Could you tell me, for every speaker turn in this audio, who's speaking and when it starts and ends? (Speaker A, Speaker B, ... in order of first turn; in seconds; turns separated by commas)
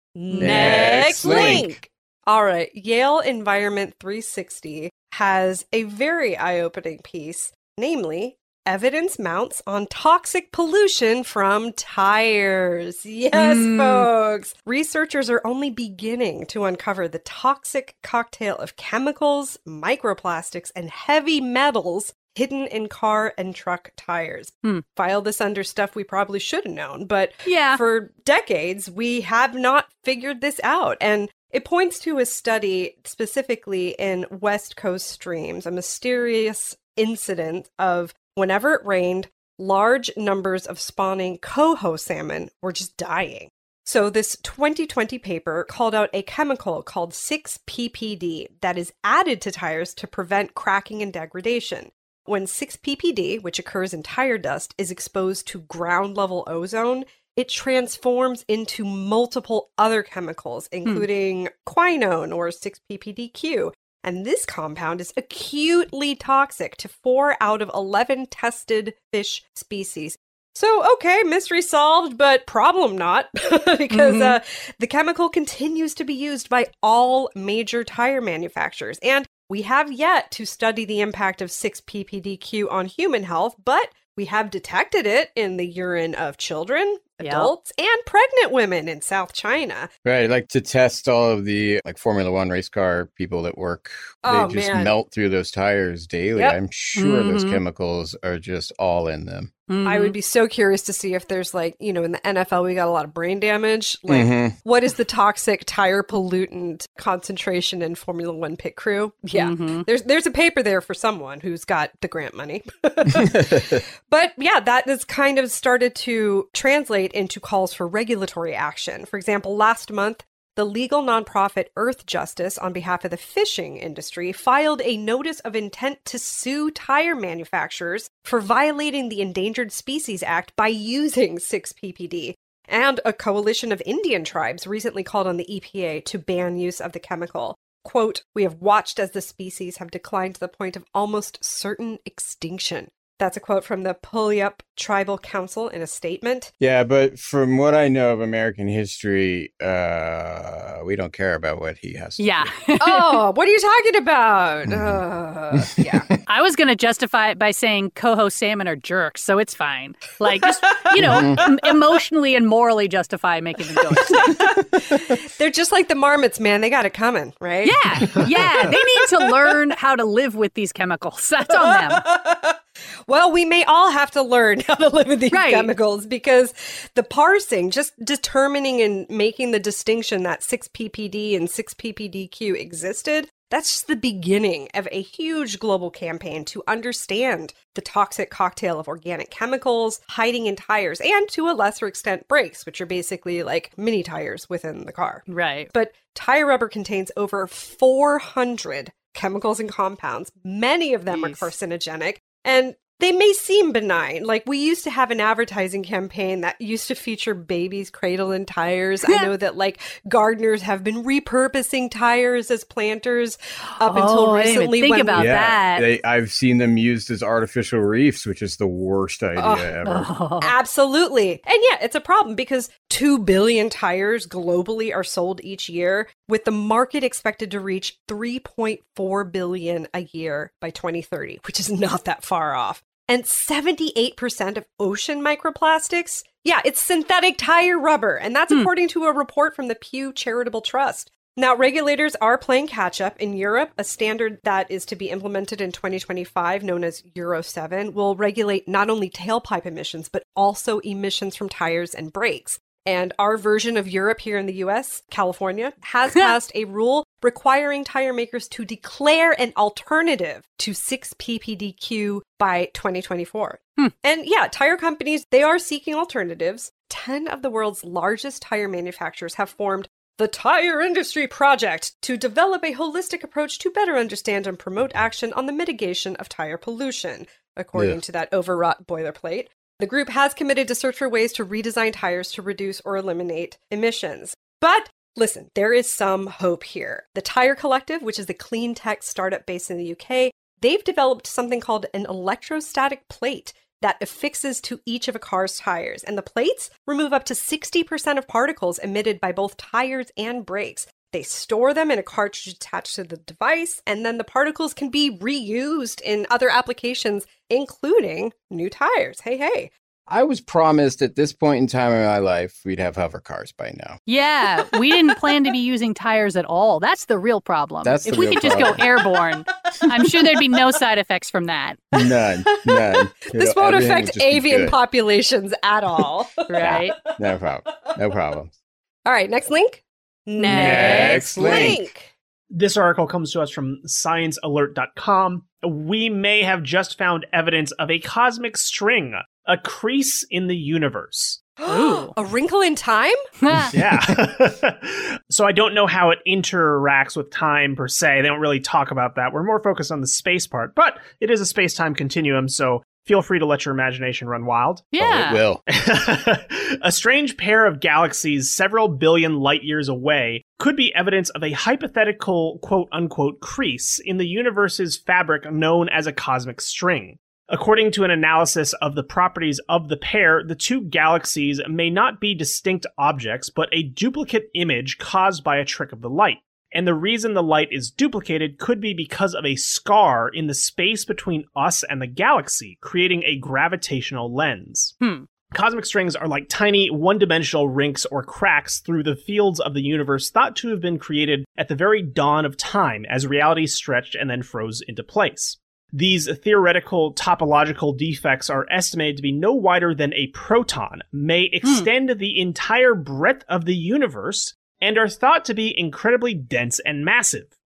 Speaker A: 0.2-89.9, Speaker B: 0.4-1.8, Speaker C: 13.3-14.1, Speaker C: 27.4-27.8, Speaker C: 73.9-74.4, Speaker C: 87.2-87.5, Speaker B: 90.0-99.5, Speaker A: 94.2-94.9, Speaker C: 97.0-97.6, Speaker C: 99.7-100.2, Speaker A: 99.8-146.5, Speaker B: 104.1-104.5, Speaker C: 109.3-109.9, Speaker B: 113.2-113.8, Speaker B: 146.6-152.5, Speaker C: 152.2-153.2, Speaker A: 152.8-156.1, Speaker B: 154.7-155.0, Speaker B: 155.6-155.8, Speaker C: 156.3-164.4, Speaker A: 160.9-161.4, Speaker B: 161.0-161.4, Speaker A: 164.0-169.3, Speaker C: 167.6-172.1, Speaker A: 171.5-215.5, Speaker C: 175.3-175.7, Speaker C: 195.3-195.7, Speaker C: 201.1-201.5, Speaker C: 213.8-215.9, Speaker B: 215.2-220.1, Speaker A: 219.4-219.7, Speaker C: 219.8-220.5, Speaker A: 220.4-309.7, Speaker B: 277.8-278.0, Speaker B: 310.1-314.0, Speaker C: 314.1-321.8, Speaker B: 317.8-318.8, Speaker B: 321.9-324.8, Speaker A: 322.0-326.9, Speaker C: 326.5-327.0, Speaker B: 326.6-328.5, Speaker A: 329.1-332.1, Speaker C: 330.4-331.4, Speaker B: 330.5-331.8, Speaker D: 332.5-341.4, Speaker A: 341.6-343.2, Speaker C: 341.7-342.1, Speaker C: 343.4-343.7, Speaker D: 343.7-354.9, Speaker C: 354.9-355.4, Speaker B: 355.0-355.6, Speaker D: 355.7-385.0, Speaker C: 385.0-385.3, Speaker D: 385.5-407.5